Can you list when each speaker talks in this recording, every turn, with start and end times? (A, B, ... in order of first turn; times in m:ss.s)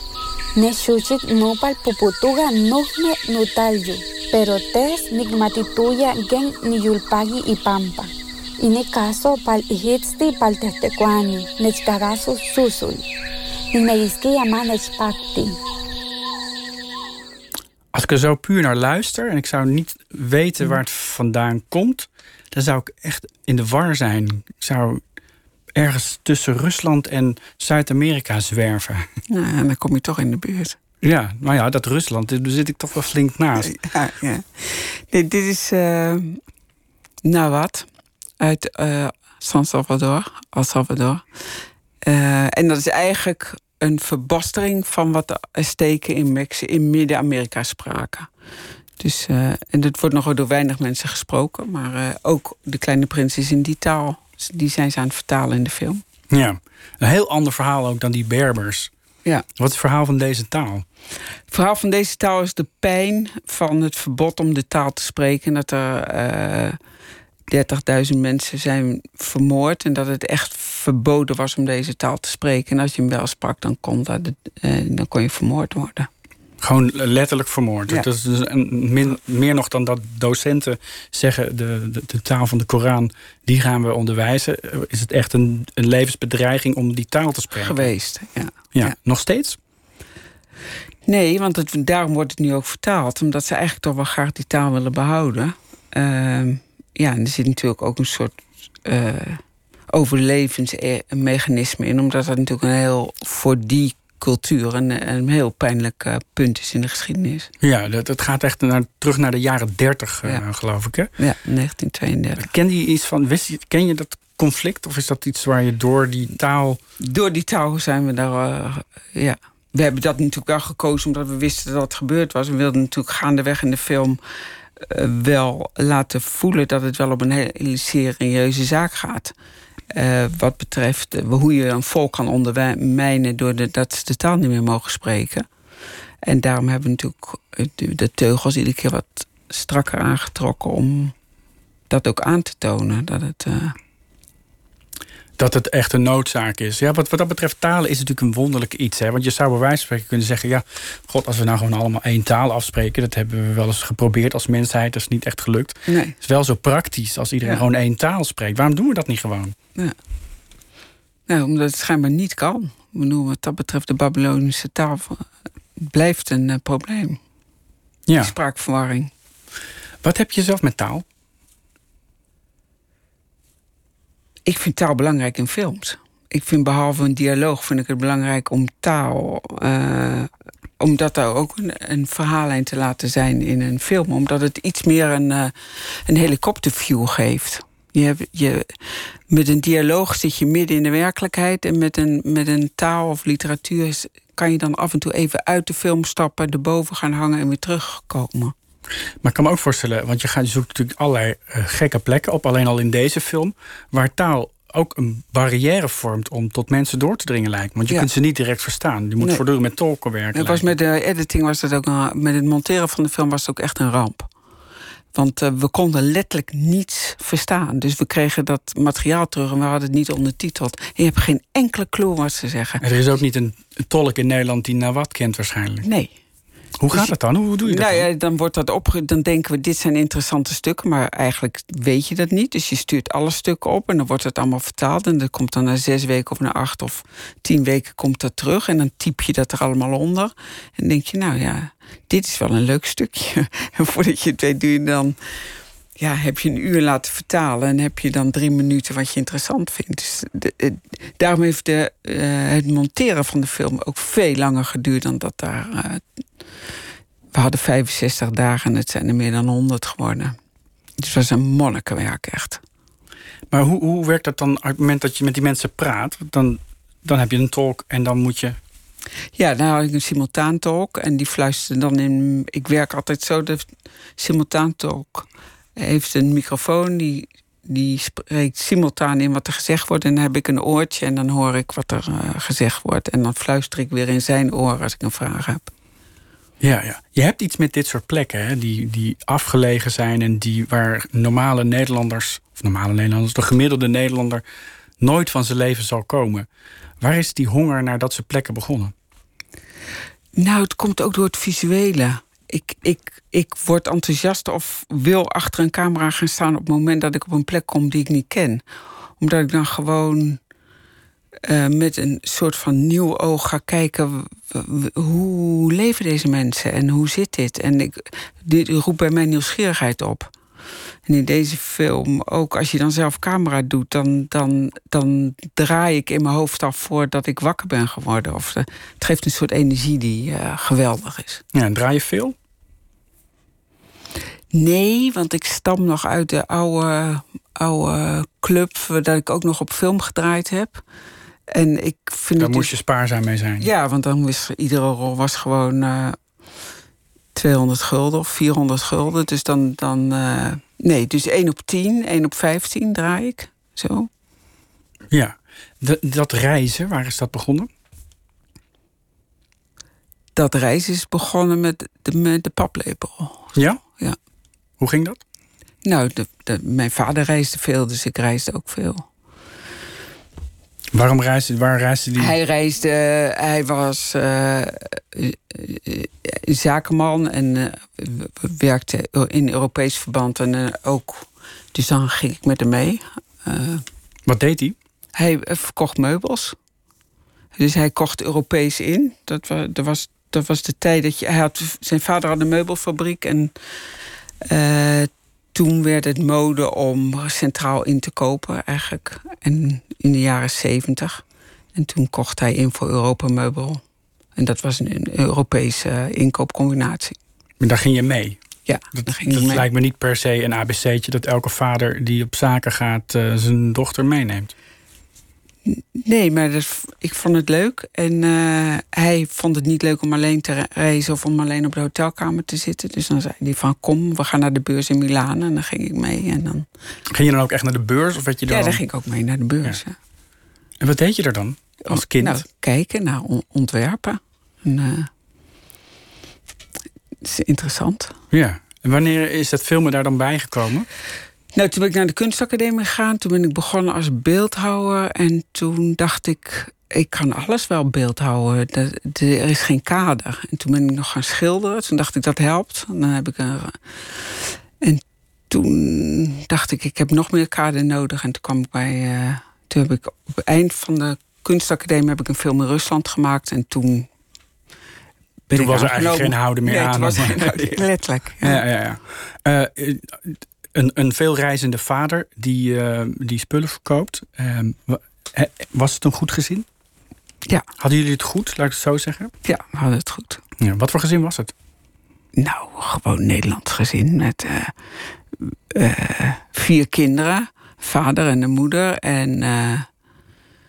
0:00.5-0:13.1 A
0:13.7-0:15.6 A
0:17.9-0:25.0 B
0:25.8-0:29.1 B
0:29.3-0:30.8 C
0:31.0-0:33.7 B
0:33.6-0:36.4 C
0:37.2-0:37.9 C
0:38.4-0:41.2 C
0:42.0-0:48.3 C
0:49.0-0:56.0 C
0:56.3-0:58.9 B
0:59.6-1:00.8 B
1:01.5-1:06.8 C
1:07.5-1:16.1 C
1:16.6-1:27.9 B
1:27.6-1:28.9 C
1:28.7-1:29.6 B
1:31.0-1:39.4 C
1:39.9-1:47.5 C
1:47.6-1:51.1 B
1:51.2-1:52.5 C
1:52.4-1:56.8 B
1:57.0-2:04.2 C
2:04.8-2:09.3 C
2:09.9-2:15.5 C
2:16.2-2:21.1 C
2:21.9-2:23.7 C
2:25.4-2:39.5 B
2:35.9-2:36.1 C
2:41.3-2:45.3 C
2:45.8-2:47.2 C
2:48.1-2:48.3 B
2:48.2-2:49.1 C
2:50.0-2:51.0 B
2:54.4-3:05.5 C
3:06.0-3:08.7 C
3:09.3-3:18.5 C
3:19.2-3:30.7 B
3:30.3-3:34.3 C
3:35.1-3:42.8 C
3:42.8-3:45.9 B
3:45.8-3:46.1 C
3:46.8-3:48.1 B
3:47.6-4:05.2 C
4:06.0-4:16.0 C
4:17.3-4:20.3 C
4:21.0-4:22.6 C
4:23.5-4:28.6 B
4:29.4-4:33.7 C
4:34.2-4:45.7 C
4:46.6-4:54.4 B
4:55.0-4:56.5 B
4:57.0-4:58.9 B
5:00.4-5:08.6 C
5:09.2-5:10.4 C
5:11.4-5:20.3 C
5:21.0-5:31.4 C
5:31.5-5:32.3 B
5:34.5-5:40.8 C
5:41.5-5:42.7 C
5:42.4-5:43.7 B
5:43.6-5:46.2 C
5:47.3-5:54.1 C
5:55.1-5:57.7 B
6:00.3-6:03.5 C
6:03.5-6:03.8 B
6:04.8-6:05.2 B
6:05.8-6:09.0 C
6:10.9-6:12.3 B
6:12.2-6:23.8 C
6:24.3-6:24.8 B
6:25.2-6:26.5 C
6:27.6-6:33.5 C
6:34.4-6:41.2 C
6:41.7-6:43.8 C
6:44.4-6:47.1 C
6:47.6-6:48.4 B
6:48.7-6:49.6 C
6:48.9-6:54.5 B
6:55.6-7:06.6 C
7:07.1-7:08.8 B
7:08.5-7:09.9 C
7:10.8-7:12.4 B
7:11.9-7:15.1 C
7:17.2-7:18.1 C
7:18.3-7:20.9 B
7:21.5-7:33.8 C
7:34.8-7:44.1 C
7:45.5-7:48.6 C
7:45.5-7:47.8 B
7:48.4-7:56.6 B
7:57.8-7:59.3 B
7:59.4-8:00.4 C
8:00.6-8:01.5 B
8:02.4-8:04.7 C
8:05.4-8:09.9 C